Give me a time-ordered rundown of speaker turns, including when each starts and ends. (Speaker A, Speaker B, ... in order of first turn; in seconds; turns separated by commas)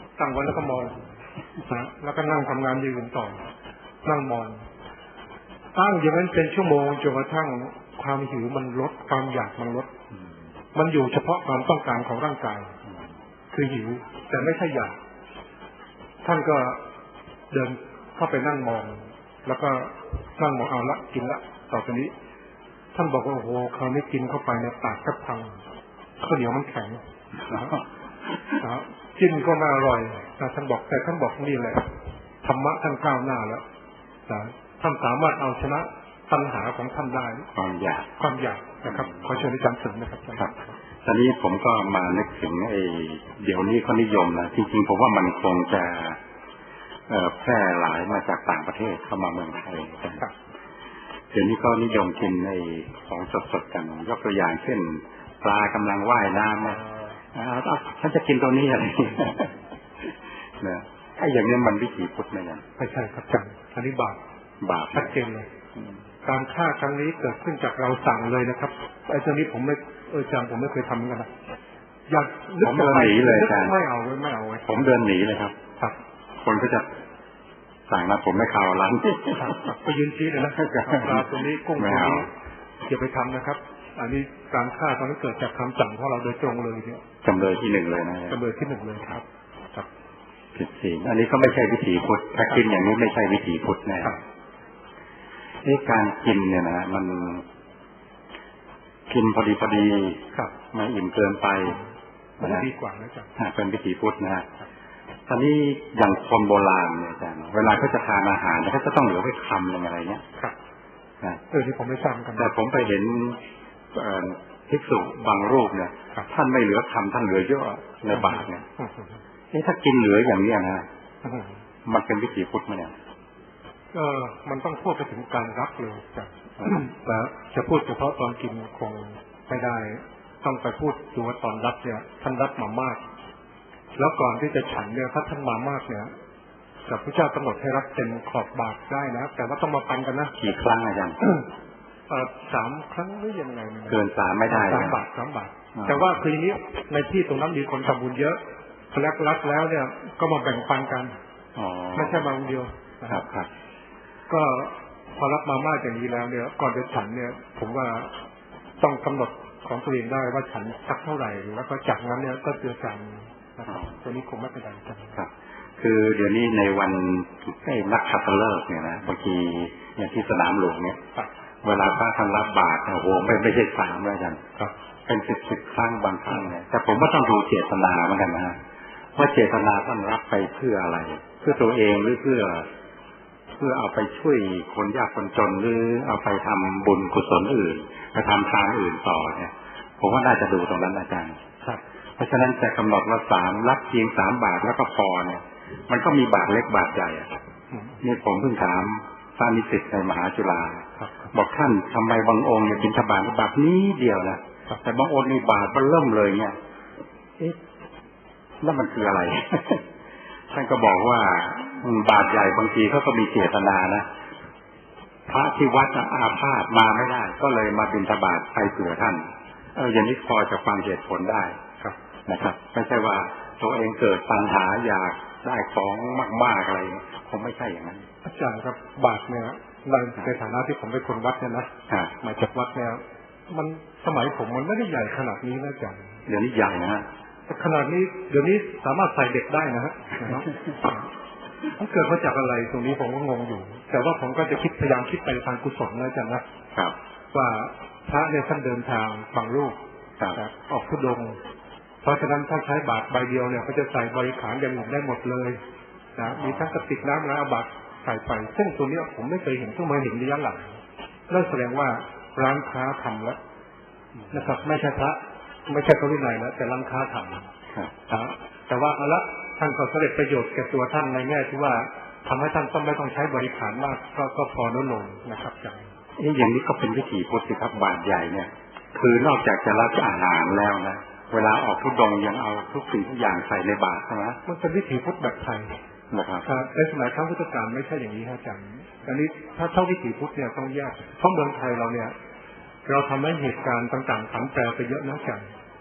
Speaker A: 0.2-1.0, Speaker A: 1.6-3.4, Speaker A: 4.0-4.6, Speaker A: 5.8-9.9, Speaker A: 10.8-12.7, Speaker A: 13.5-15.0, Speaker A: 16.2-16.8, Speaker A: 17.5-22.1, Speaker A: 22.9-25.6, Speaker A: 26.2-27.8, Speaker B: 27.5-27.8, Speaker A: 28.6-31.9, Speaker A: 32.4-33.6, Speaker A: 34.3-37.5, Speaker B: 37.5-38.1, Speaker A: 38.2-40.7, Speaker B: 38.9-39.2, Speaker B: 41.0-46.2, Speaker B: 47.1-50.2, Speaker B: 51.3-62.6, Speaker A: 62.8-64.2, Speaker B: 64.6-65.1, Speaker A: 64.9-65.5, Speaker A: 66.2-71.3, Speaker A: 72.1-74.8, Speaker B: 72.6-73.8, Speaker B: 74.7-75.5, Speaker B: 76.4-76.9, Speaker B: 77.9-79.6, Speaker A: 79.3-82.3, Speaker B: 80.8-81.2, Speaker B: 81.8-82.3, Speaker A: 82.9-87.0, Speaker B: 87.2-88.4, Speaker A: 88.3-89.9, Speaker B: 90.5-94.2, Speaker B: 95.6-97.4, Speaker B: 99.1-101.8, Speaker B: 102.4-102.7, Speaker A: 102.4-103.3, Speaker B: 103.4-104.5, Speaker B: 105.3-110.2, Speaker A: 111.5-112.5, Speaker B: 112.4-118.7, Speaker A: 118.1-119.1, Speaker B: 119.5-120.9, Speaker A: 121.2-121.5, Speaker B: 121.8-122.9, Speaker A: 123.9-133.0, Speaker A: 134.0-136.1, Speaker A: 136.9-140.3, Speaker B: 140.4-141.2, Speaker A: 142.1-148.4, Speaker B: 143.9-145.0, Speaker B: 145.8-146.0, Speaker A: 148.9-151.2, Speaker B: 151.6-152.3, Speaker A: 151.9-153.2, Speaker B: 153.1-153.5, Speaker A: 154.3-158.2, Speaker A: 158.8-165.2, Speaker B: 165.2-171.0, Speaker B: 171.6-174.4, Speaker B: 175.1-178.6, Speaker B: 179.2-182.7, Speaker B: 183.6-191.4, Speaker B: 192.2-197.3, Speaker A: 197.7-198.0, Speaker B: 198.0-206.6, Speaker A: 201.0-201.3, Speaker B: 208.6-209.8, Speaker B: 210.5-214.1, Speaker B: 215.3-221.6, Speaker B: 222.3-228.1, Speaker A: 228.2-236.1, Speaker B: 236.3-237.1, Speaker A: 237.5-241.1, Speaker A: 241.7-246.4, Speaker A: 247.3-249.8, Speaker A: 250.3-251.4, Speaker A: 252.0-255.6, Speaker A: 256.2-260.8, Speaker A: 261.3-263.4, Speaker A: 264.3-267.5, Speaker A: 268.1-275.9, Speaker B: 276.2-284.4, Speaker A: 284.5-285.8, Speaker B: 286.1-286.5, Speaker A: 286.4-292.1, Speaker A: 292.9-295.4